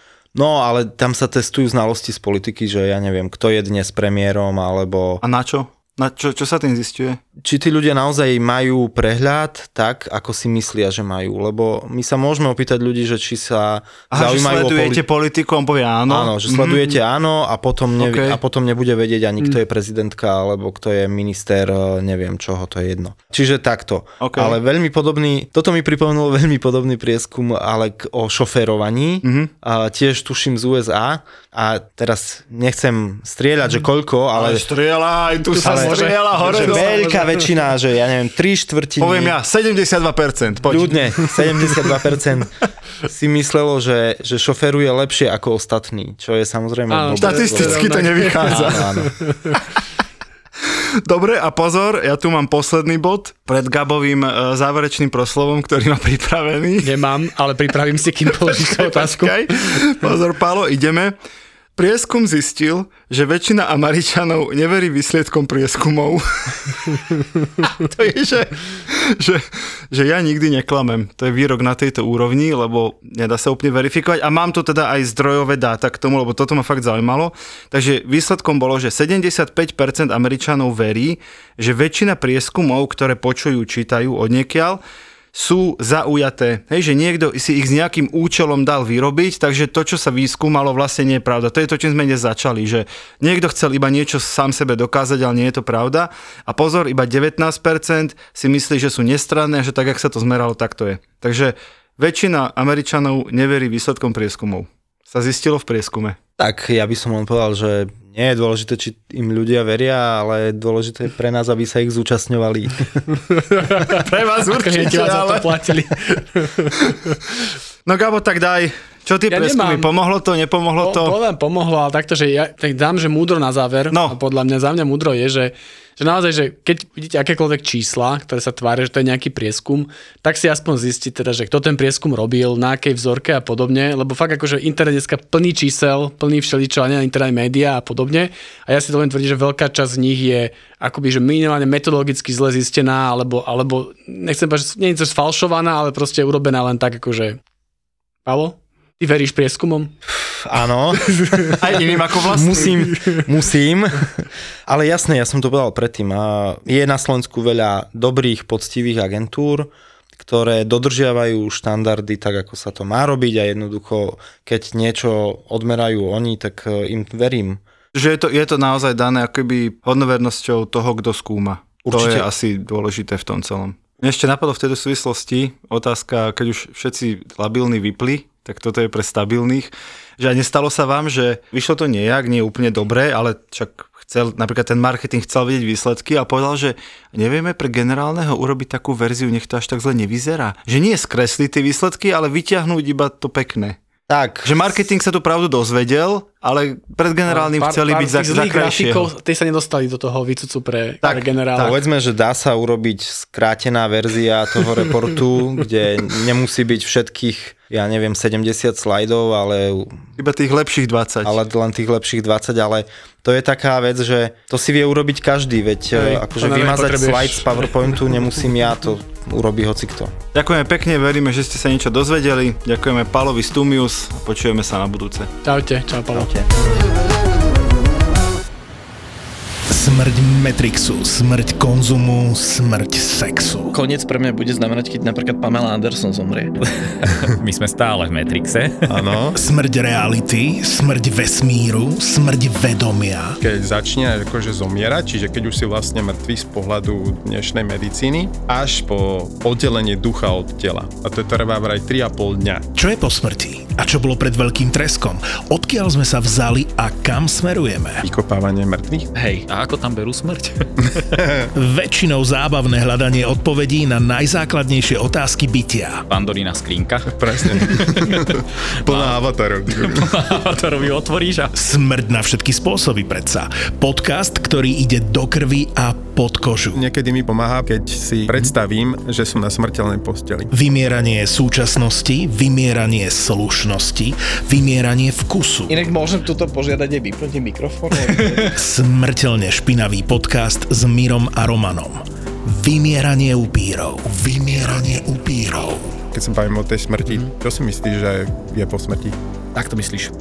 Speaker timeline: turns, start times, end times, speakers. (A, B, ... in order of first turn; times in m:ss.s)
0:00.4-0:05.2 A
0:05.2-0:07.2 B
0:07.4-0:15.0 A
0:14.1-0:17.0 B
0:16.1-0:34.6 A
0:18.0-0:18.4 B
0:24.2-0:24.6 B
0:29.2-0:29.5 B
0:34.3-0:36.9 B
0:35.6-0:37.5 C
0:35.6-0:39.4 A
0:39.0-0:41.2 B
0:40.7-0:42.5 A
0:43.1-0:49.2 A
0:46.9-0:49.6 C
0:47.2-0:48.9 B
0:50.6-0:56.9 B
0:56.8-0:59.8 C
0:58.3-1:01.1 B
1:01.8-1:07.0 B
1:07.6-1:24.8 B
1:25.3-1:46.2 B
1:46.4-1:53.0 A
1:53.3-1:56.7 C
1:53.9-1:55.7 B
1:57.9-2:01.2 B
1:59.3-1:59.9 C
2:00.8-2:27.4 C
2:03.9-2:04.2 B
2:28.2-2:29.9 C
2:30.1-2:47.6 A
2:31.6-2:32.8 B
2:47.9-3:13.8 B
2:51.8-2:52.3 A
3:14.1-3:14.5 A
3:14.4-3:19.1 B
3:17.3-3:21.8 C
3:21.6-3:30.0 A
3:30.2-3:31.4 B
3:31.2-3:40.1 A
3:36.0-3:37.6 C
3:40.3-3:45.3 B
3:45.4-3:46.3 C
3:46.1-3:46.5 A
3:49.7-3:53.7 D
3:53.7-3:56.5 E
3:57.4-3:58.8 F
3:58.9-3:59.4 G
3:59.4-4:03.4 D
4:03.4-4:12.7 G
4:12.8-4:18.0 D
4:18.0-4:19.1 G
4:19.2-4:21.0 F
4:21.5-4:26.1 D
4:26.1-4:28.2 F
4:27.1-4:30.1 G
4:28.9-4:31.5 F
4:31.6-4:36.8 D
4:36.8-4:40.5 G
4:40.5-4:45.8 D
4:45.7-4:48.5 E
4:48.5-4:56.0 D
4:56.1-4:59.2 G
4:59.6-5:00.1 F